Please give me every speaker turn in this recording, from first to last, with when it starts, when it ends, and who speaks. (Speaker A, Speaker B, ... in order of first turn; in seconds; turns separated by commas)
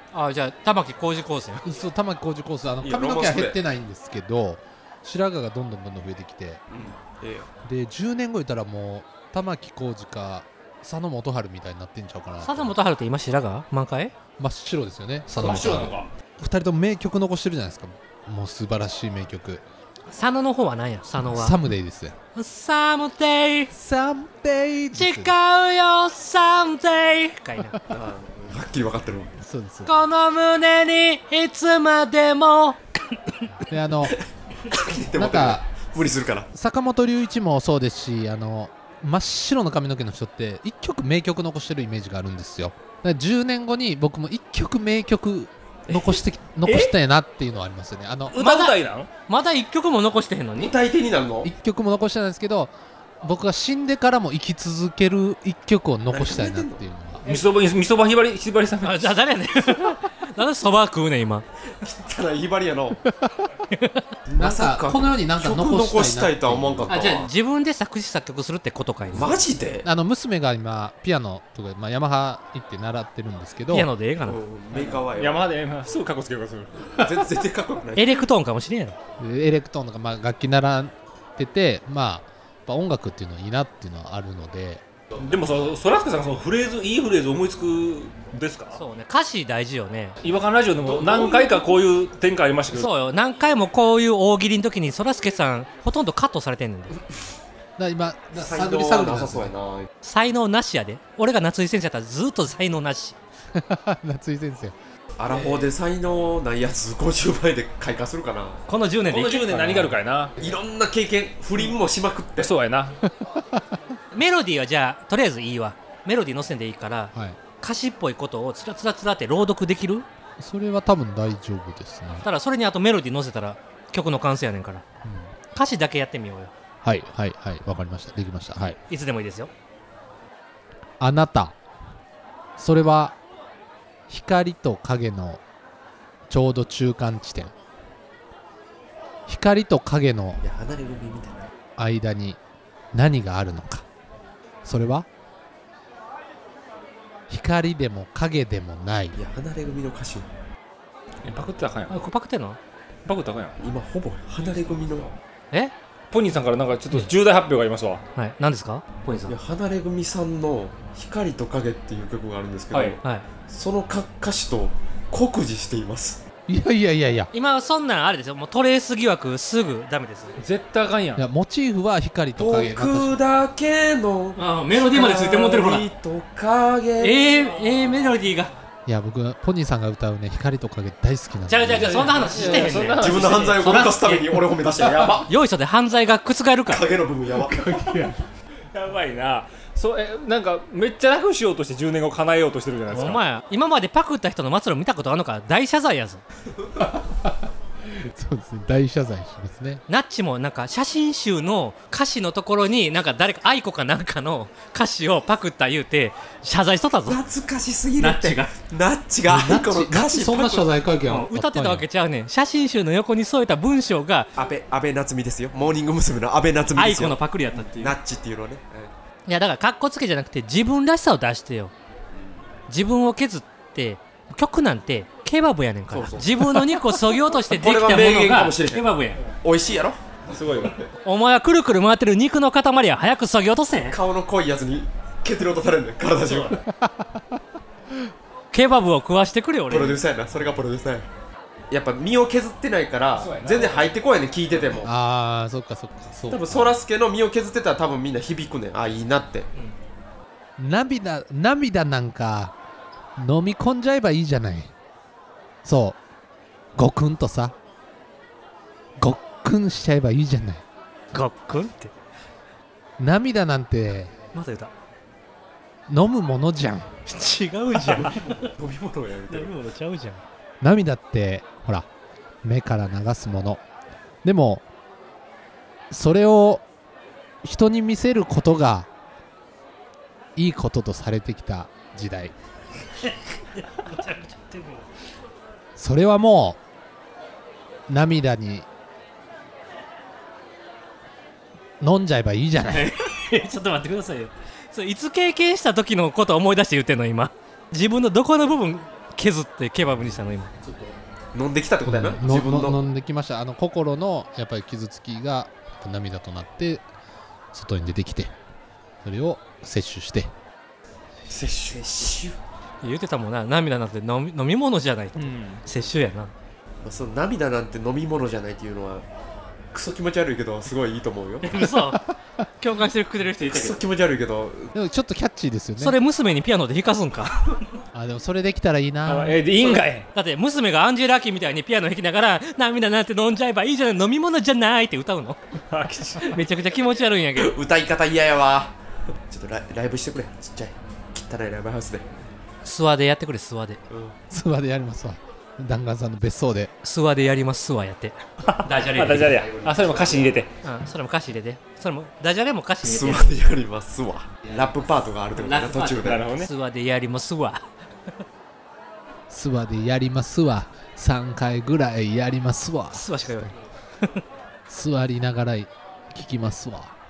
Speaker A: 0.1-1.7, Speaker B: 1.6-6.6, Speaker C: 2.8-3.6, Speaker C: 6.7-7.5, Speaker B: 7.6-12.7, Speaker A: 12.4-14.1, Speaker B: 14.4-19.6, Speaker D: 15.3-16.1, Speaker A: 20.1-21.6, Speaker B: 21.2-22.1, Speaker A: 22.3-23.7, Speaker B: 23.7-25.4, Speaker A: 24.9-27.8, Speaker C: 27.9-29.3, Speaker B: 29.4-29.9, Speaker A: 29.9-33.4, Speaker B: 33.5-34.2, Speaker C: 34.7-36.5, Speaker B: 35.1-35.7, Speaker B: 36.5-48.4, Speaker C: 45.9-46.2, Speaker D: 46.6-46.9, Speaker D: 48.3-49.1, Speaker A: 48.3-48.7, Speaker A: 49.2-50.7, Speaker C: 50.5-51.5, Speaker B: 51.4-57.2, Speaker C: 56.1-56.8, Speaker D: 57.2-59.2, Speaker A: 58.8-61.4, Speaker C: 61.8-63.0, Speaker B: 63.1-63.5, Speaker A: 63.7-64.1, Speaker C: 64.3-67.3, Speaker B: 64.3-66.9, Speaker A: 66.9-69.4, Speaker C: 69.1-69.8, Speaker B: 69.8-73.9, Speaker A: 73.7-74.4, Speaker C: 74.2-75.5, Speaker D: 74.7-76.8, Speaker C: 76.9-78.3, Speaker A: 77.9-79.0, Speaker B: 79.2-84.8, Speaker D: 85.2-88.8, Speaker A: 88.7-90.2, Speaker D: 90.2-92.9, Speaker C: 90.8-91.6, Speaker A: 92.7-96.9, Speaker B: 97.8-99.5, Speaker C: 98.3-99.9, Speaker A: 100.0-103.2, Speaker B: 103.5-104.7, Speaker C: 105.2-108.6, Speaker B: 105.3-105.7, Speaker A: 108.7-109.5, Speaker D: 109.1-110.4, Speaker B: 109.5-110.0, Speaker C: 110.4-112.5, Speaker D: 112.4-113.0, Speaker B: 113.0-113.8, Speaker A: 114.1-120.0, Speaker B: 117.1-117.4, Speaker B: 120.4-122.2, Speaker A: 122.2-124.8, Speaker B: 125.0-125.3, Speaker A: 125.5-126.5, Speaker B: 126.8-128.8, Speaker A: 128.9-129.5, Speaker B: 131.0-131.6, Speaker B: 132.6-133.2, Speaker B: 134.1-135.4, Speaker B: 136.3-137.5, Speaker B: 139.3-140.4, Speaker C: 140.4-141.5, Speaker B: 141.8-142.4, Speaker B: 142.9-143.8, Speaker B: 144.6-145.1, Speaker B: 147.3-149.2, Speaker C: 149.1-150.3, Speaker D: 151.2-152.0, Speaker A: 151.9-152.6, Speaker D: 153.0-153.6, Speaker C: 153.6-155.1, Speaker D: 154.4-154.8, Speaker D: 156.1-158.0, Speaker A: 158.1-159.3, Speaker C: 159.3-166.2, Speaker D: 162.7-163.0, Speaker B: 166.5-167.3, Speaker A: 167.3-170.4, Speaker D: 170.4-171.2, Speaker B: 171.2-173.2, Speaker C: 172.4-177.2, Speaker A: 174.3-175.8, Speaker A: 177.0-178.5, Speaker B: 178.8-182.3, Speaker A: 181.5-184.4, Speaker D: 181.7-183.8, Speaker C: 182.9-185.3, Speaker B: 184.8-185.1, Speaker A: 185.2-186.9, Speaker C: 186.7-187.6, Speaker B: 187.4-188.2, Speaker D: 188.7-193.2, Speaker A: 192.9-196.2, Speaker B: 196.9-199.8, Speaker A: 199.9-207.2, Speaker C: 207.1-210.7, Speaker A: 208.0-208.5, Speaker B: 209.3-211.9, Speaker A: 211.1-214.3, Speaker C: 214.3-218.9, Speaker A: 216.7-217.9, Speaker A: 219.2-221.7, Speaker A: 222.7-229.2, Speaker C: 225.9-226.9, Speaker C: 227.5-228.9, Speaker C: 229.4-230.7, Speaker D: 230.3-230.8, Speaker A: 231.0-234.0, Speaker C: 233.9-236.6, Speaker D: 236.3-236.5, Speaker B: 236.7-237.4, Speaker A: 238.5-240.0, Speaker C: 239.7-241.1, Speaker C: 241.7-244.9, Speaker D: 243.1-243.9, Speaker B: 244.8-246.7, Speaker C: 246.3-249.5, Speaker B: 250.6-252.6, Speaker B: 253.2-254.7, Speaker B: 255.6-256.0, Speaker B: 256.8-257.5, Speaker B: 259.0-260.6, Speaker A: 261.1-261.9, Speaker B: 263.0-264.1, Speaker A: 264.3-264.7, Speaker B: 265.9-266.9, Speaker A: 267.1-268.5, Speaker C: 267.8-269.5, Speaker A: 269.3-270.2, Speaker B: 270.6-271.9, Speaker B: 272.4-273.6, Speaker B: 274.2-274.6, Speaker B: 275.9-276.6, Speaker B: 277.4-278.9, Speaker B: 280.4-282.3, Speaker A: 283.1-284.9, Speaker B: 285.8-286.6, Speaker B: 287.9-288.7, Speaker B: 291.8-292.9, Speaker A: 292.6-300.5, Speaker B: 300.6-301.0, Speaker C: 301.3-302.8, Speaker B: 301.8-306.8, Speaker B: 307.5-308.3, Speaker B: 309.0-310.3, Speaker C: 311.3-312.4, Speaker A: 312.8-316.3, Speaker D: 315.1-315.6, Speaker C: 316.8-319.0, Speaker C: 319.7-321.5, Speaker A: 321.4-323.8, Speaker B: 321.6-322.1, Speaker C: 323.4-324.7, Speaker B: 324.7-326.0, Speaker A: 325.8-327.5, Speaker B: 327.9-329.4, Speaker D: 329.1-330.1, Speaker A: 330.1-335.4, Speaker D: 335.7-336.3, Speaker A: 336.2-337.5, Speaker C: 337.4-338.7, Speaker C: 339.3-342.1, Speaker A: 342.6-343.8, Speaker C: 343.9-344.2, Speaker B: 344.3-346.7, Speaker A: 346.8-349.4, Speaker D: 348.4-350.5, Speaker C: 349.2-350.4, Speaker A: 350.6-353.4, Speaker C: 352.8-356.2, Speaker A: 355.3-358.2, Speaker D: 356.0-356.5, Speaker B: 359.3-363.5, Speaker A: 362.9-364.2, Speaker B: 364.7-366.9